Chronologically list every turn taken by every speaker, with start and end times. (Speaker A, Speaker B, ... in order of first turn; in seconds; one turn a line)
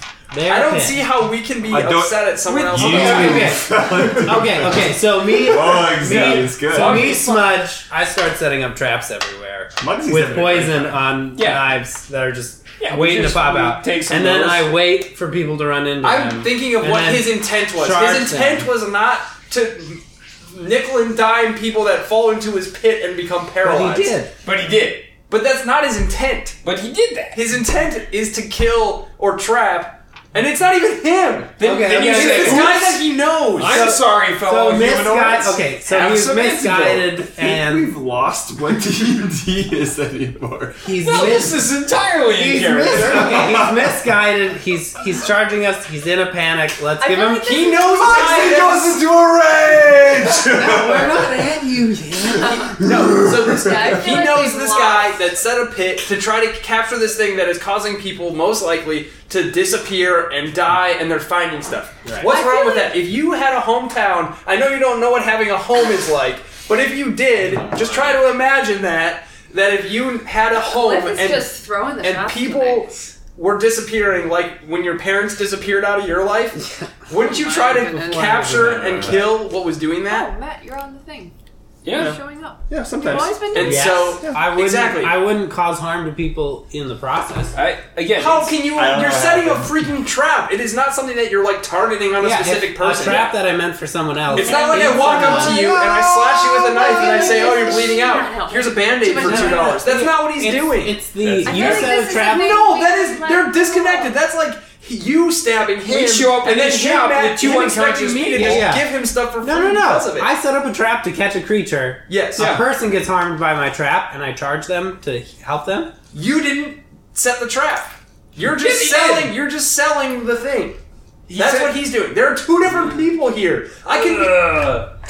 Speaker A: 0.3-1.1
Speaker B: 0.4-3.5
Speaker C: 1.7-7.2
Speaker D: 2.5-3.5
Speaker A: 2.8-18.7
Speaker B: 6.0-6.5
Speaker D: 6.1-7.6
Speaker C: 9.8-11.0
Speaker D: 11.3-11.8
Speaker D: 12.8-14.8
Speaker B: 16.0-24.2
Speaker A: 23.6-24.3
Speaker D: 24.4-25.1
Speaker B: 25.3-26.6
Speaker D: 26.6-27.4
Speaker B: 27.3-34.0
Speaker D: 31.6-37.1
Speaker A: 31.6-32.8
Speaker A: 33.6-37.9
Speaker C: 37.2-40.8
Speaker A: 40.8-41.7
Speaker D: 41.0-43.3
Speaker A: 42.2-47.6
Speaker C: 42.8-44.0
Speaker E: 47.0-48.7
Speaker B: 47.4-49.0
Speaker C: 48.0-51.5
Speaker A: 50.3-52.9
Speaker B: 52.4-80.3
Speaker E: 53.4-55.2
Speaker C: 53.5-53.9
Speaker A: 62.0-62.3
Speaker E: 62.2-63.0
Speaker A: 67.5-67.8
Speaker E: 70.6-72.9
Speaker E: 77.1-78.3
Speaker A: 77.5-79.2
Speaker D: 78.6-79.2
Speaker C: 78.7-79.1
Speaker E: 80.0-81.3
Speaker D: 81.8-82.2
Speaker E: 81.9-84.1
Speaker C: 81.9-82.2
Speaker C: 82.7-84.5
Speaker B: 83.5-85.2
Speaker A: 83.6-87.6
Speaker D: 87.5-88.6
Speaker B: 88.1-93.4
Speaker C: 88.7-89.8
Speaker A: 92.2-95.8
Speaker B: 94.3-110.3
Speaker E: 94.3-99.8
Speaker C: 95.4-97.7
Speaker A: 99.2-102.6
Speaker D: 101.2-102.1
Speaker E: 101.4-104.2
Speaker D: 105.8-108.7
Speaker A: 108.4-115.9
Speaker B: 112.1-112.5
Speaker D: 112.3-112.6
Speaker B: 116.1-124.7
Speaker D: 118.4-119.3
Speaker D: 121.3-121.8
Speaker D: 122.7-123.0
Speaker D: 123.9-124.9